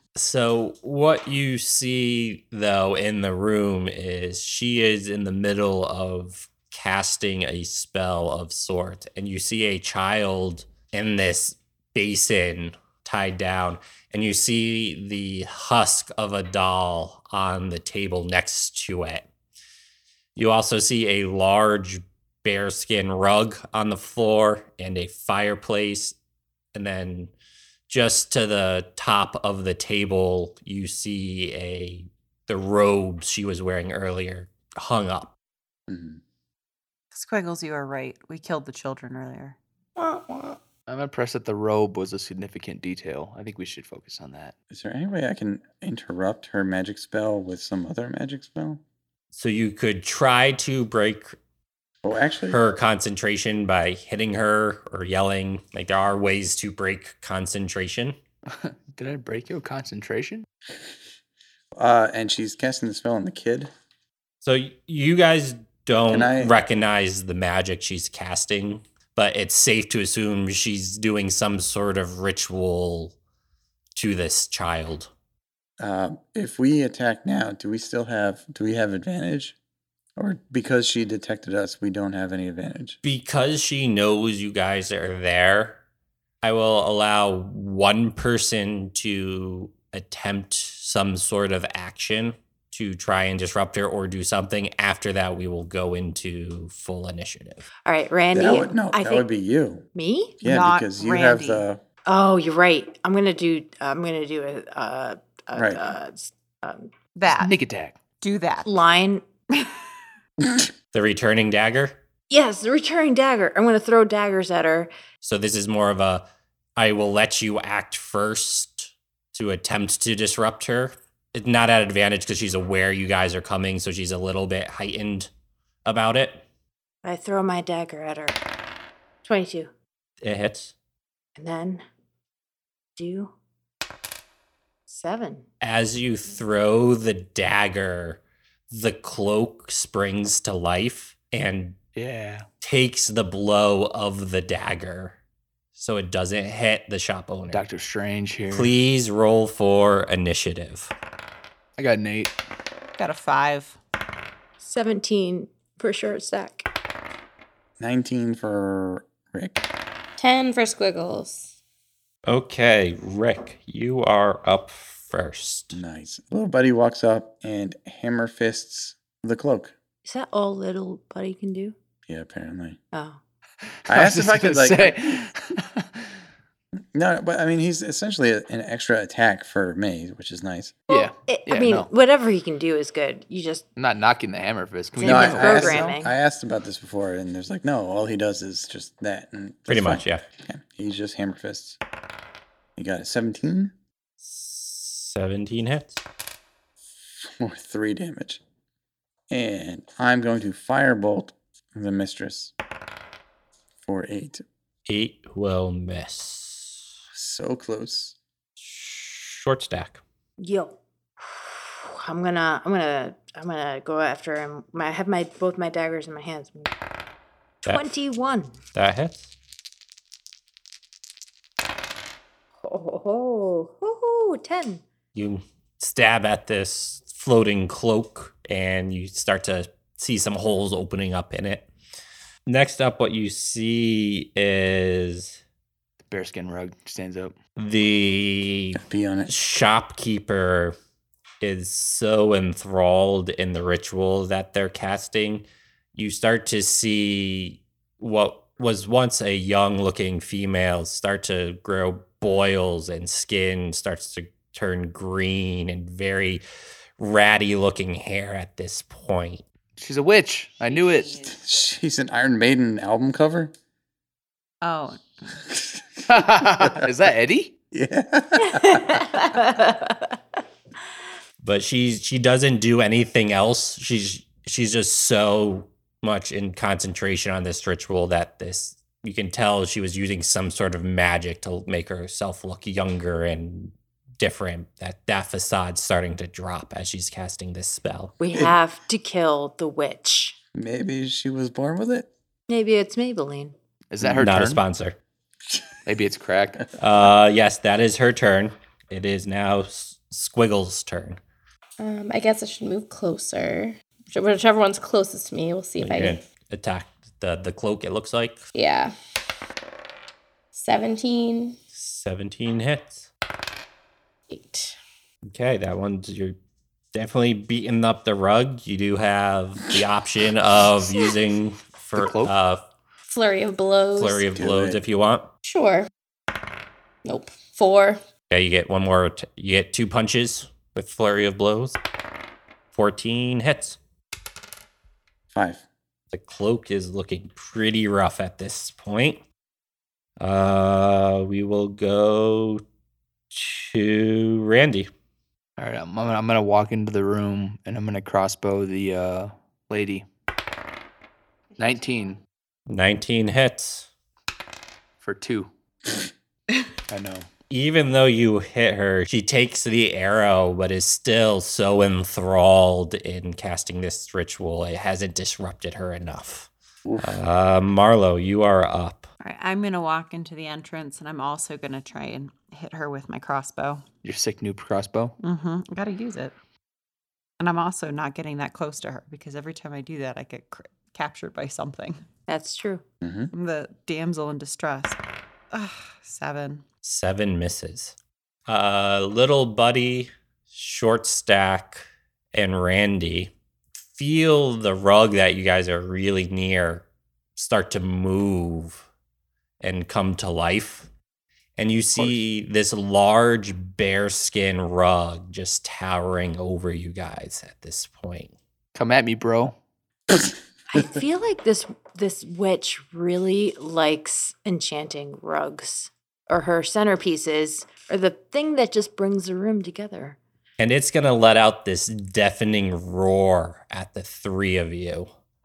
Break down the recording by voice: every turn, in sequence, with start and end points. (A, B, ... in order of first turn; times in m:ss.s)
0:00.2-0:19.2 A
0:20.4-0:26.1 A
0:26.7-0:27.3 A
0:27.9-0:35.3 A
0:35.9-0:36.2 B
0:37.1-0:39.6 C
0:40.0-0:40.6 D
0:40.9-0:44.5 E
0:44.7-0:48.8 B
0:49.3-0:51.4 A
0:52.0-0:52.6 B
0:52.5-0:58.2 A
0:58.5-1:00.5 E
1:01.7-1:03.7 B
1:04.4-1:13.1 A
1:06.1-1:06.6 B
1:14.0-1:15.1 A
1:15.8-1:19.6 B
1:20.2-1:23.0 B
1:23.0-1:25.8 A
1:26.4-1:37.6 A
1:37.8-1:39.3 F
1:38.3-1:39.8 B
1:39.9-1:40.4 F
1:40.4-1:41.6 C
1:40.4-1:41.8 B
1:42.0-1:46.9 F
1:45.5-1:45.9 B
1:47.2-1:47.5 C
1:47.3-1:48.0 E
1:48.2-1:48.7 C
1:48.6-1:49.2 F
1:50.9-1:52.0 A
1:52.3-1:54.9 F
1:55.2-1:56.2 A
1:56.8-2:05.3 A
2:05.8-2:06.4 A
2:07.0-2:08.4 F
2:09.2-2:09.7 F
2:10.2-2:10.7 A
2:11.4-2:11.8 F
2:13.0-2:13.3 F
2:14.9-2:15.4 F
2:15.6-2:21.8 A
2:22.0-2:22.5 E
2:22.6-2:25.2 A
2:25.8-2:27.6 A
2:27.5-2:28.7 E
2:28.5-2:30.9 A
2:31.8-2:32.3 E
2:33.0-2:33.8 C
2:34.6-2:36.6 F
2:37.8-2:39.6 B
2:40.2-2:41.5 D
2:42.2-2:45.8 A
2:45.7-2:49.7 B
2:50.0-2:51.7 F
2:52.1-2:52.8 B
2:52.9-2:53.2 F
2:53.9-2:56.0 E
2:53.9-2:55.2 B
2:56.9-3:00.8 B
3:00.9-3:01.9 E
3:00.9-3:03.6 F
3:03.8-3:05.9 E
3:05.0-3:06.1 F
3:05.0-3:11.8 B
3:09.7-3:10.2 A
3:12.8-3:13.7 B
3:14.2-3:16.0 A
3:17.2-3:18.4 B
3:19.3-3:22.5 B
3:23.8-3:24.4 B
3:24.9-3:26.8 A
3:27.1-3:28.2 B
3:28.6-3:30.0 A
3:30.4-3:36.7 F
3:37.6-3:38.6 F
3:38.7-3:39.3 A
3:42.6-3:44.8 F
3:45.1-3:51.7 A
3:52.5-3:55.4 A
3:56.1-3:57.3 E
3:57.6-4:00.8 A
3:58.7-3:59.3 B
4:01.4-4:16.4 A
4:17.0-4:19.4 A
4:19.8-4:21.2 E
4:20.7-4:21.4 C
4:21.3-4:23.5 B
4:24.6-4:25.4 C
4:25.5-4:26.8 B
4:26.1-4:27.5 E
4:27.7-4:29.0 B
4:28.4-4:30.1 F
4:31.4-4:48.1 A
4:48.2-4:50.4 F
4:50.5-4:52.1 B
4:52.5-4:53.5 F
4:53.9-4:54.6 E
4:54.0-4:55.0 A
4:55.8-4:56.7 E
4:56.8-5:01.2 A
5:01.8-5:06.2 D
5:05.8-5:08.5 A
5:08.5-5:08.9 D
5:10.5-5:11.6 D
5:11.7-5:13.1 A
5:14.3-5:14.8 D
5:15.2-5:16.4 A
5:16.9-5:22.6 A
5:22.0-5:22.3 E
5:23.0-5:24.3 D
5:24.0-5:25.3 A
5:24.3-5:24.8 B
5:25.4-5:25.9 D
5:27.0-5:28.0 D
5:28.3-5:31.8 A
5:32.7-5:33.8 A
5:35.3-5:35.6 B
5:36.1-5:39.2 A
5:40.2-5:42.6 A
5:43.3-5:44.9 A
5:45.6-5:50.1 E
5:51.6-5:52.2 E
5:52.7-5:53.9 A
5:55.0-5:55.5 E
5:56.9-5:57.3 E
5:57.5-6:06.5 A
6:06.8-6:07.2 B
6:07.0-6:09.1 A
6:09.2-6:13.8 C
6:14.0-6:15.2 E
6:15.2-6:16.3 C
6:17.4-6:22.0 C
6:22.3-6:22.8 F
6:23.0-6:23.3 B
6:23.3-6:25.0 C
6:25.5-6:26.6 C
6:26.8-6:28.0 A
6:28.5-6:38.8 A
6:39.6-6:40.9 A
6:41.6-6:48.3 A
6:48.7-6:49.5 E
6:50.7-7:00.2 F
7:00.6-7:05.1 A